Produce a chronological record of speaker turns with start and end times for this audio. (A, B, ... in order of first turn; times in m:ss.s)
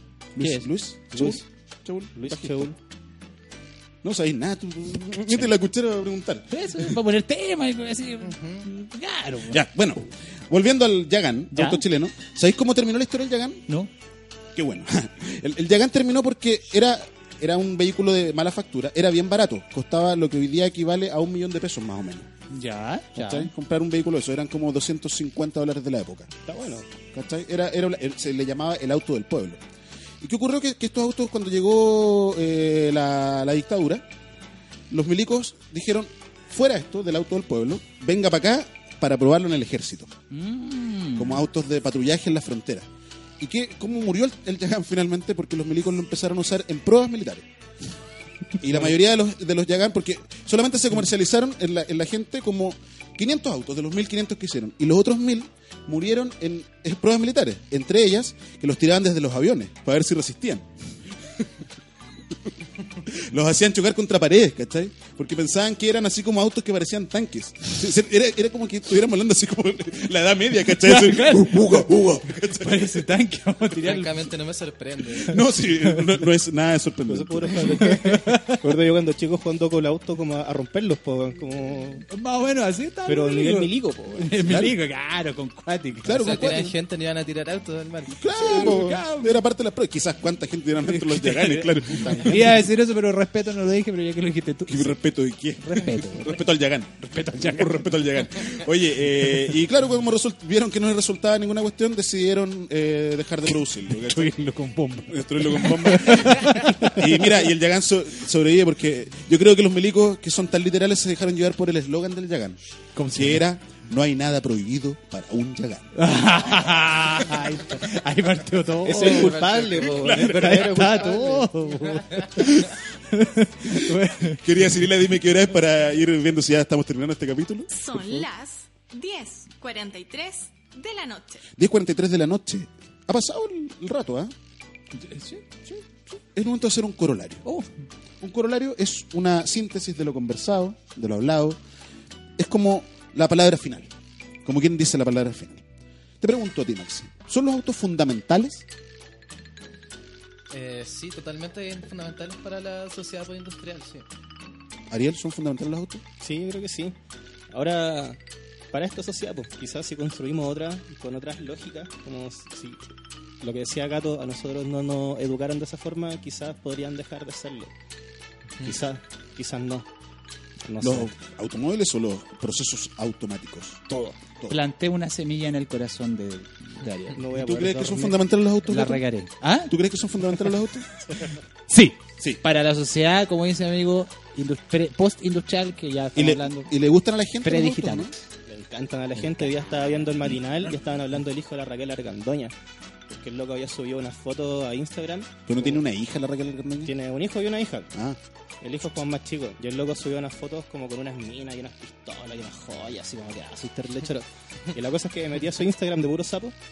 0:00.4-0:02.7 A
0:02.2-0:02.8 B
0:04.0-0:07.0 A
0:06.5-0:09.6 C
0:08.3-0:08.6 D
0:09.5-0:13.6 A
0:11.5-0:11.8 C
0:14.5-0:22.3 A
0:22.5-0:23.5 C
0:23.1-0:26.3 A
0:26.4-0:26.9 B
0:27.1-0:29.6 A
0:30.2-0:34.1 A
0:34.9-0:40.1 A
0:40.3-0:41.4 C
0:41.2-0:42.9 A
0:43.4-0:47.4 A
0:48.6-1:00.7 A
1:03.0-1:13.0 A
1:10.8-1:14.3 C
1:13.8-1:15.4 D
1:15.2-1:17.8 A
1:17.1-1:22.0 B
1:17.8-1:18.6 C
1:22.1-1:26.5 C
1:23.0-1:24.4 B
1:24.4-1:24.7 A
1:26.0-1:26.8 A
1:26.2-1:28.3 D
1:28.1-1:32.6 A
1:28.3-1:29.4 C
1:30.9-1:35.0 C
1:32.0-1:32.3 B
1:34.7-1:44.4 A
1:35.6-1:36.4 C
1:37.0-1:37.9 C
1:43.9-1:47.3 C
1:45.1-1:52.6 A
1:52.9-1:53.4 C
1:53.1-1:55.9 A
1:55.9-1:59.4 C
1:58.8-2:01.5 B
1:58.9-2:00.4 D
1:59.9-2:00.4 A
2:00.2-2:04.4 C
2:04.3-2:07.8 A
2:07.7-2:11.4 E
2:11.6-2:14.3 A
2:15.0-2:15.5 C
2:16.3-2:17.4 A
2:18.2-2:21.6 A
2:22.4-2:23.9 A
2:24.4-2:25.6 A
2:26.2-2:28.6 A
2:30.5-2:34.0 D
2:34.9-2:36.0 A
2:36.2-2:37.0 B
2:37.5-2:38.2 B
2:38.7-2:42.8 B
2:43.4-2:47.7 B
2:48.6-2:49.9 B
2:50.6-2:51.1 B
2:50.8-2:54.6 A
2:54.5-2:57.2 C
2:57.1-2:58.2 B
2:57.3-2:59.0 A
2:58.7-2:59.7 C
2:59.7-3:01.0 A
3:01.7-3:06.7 C
3:06.1-3:08.1 A
3:07.4-3:08.1 C
3:08.4-3:12.5 B
3:09.2-3:09.5 C
3:13.1-3:15.8 B
3:15.5-3:16.9 A
3:16.8-3:17.9 B
3:17.9-3:18.2 A
3:18.6-3:26.5 B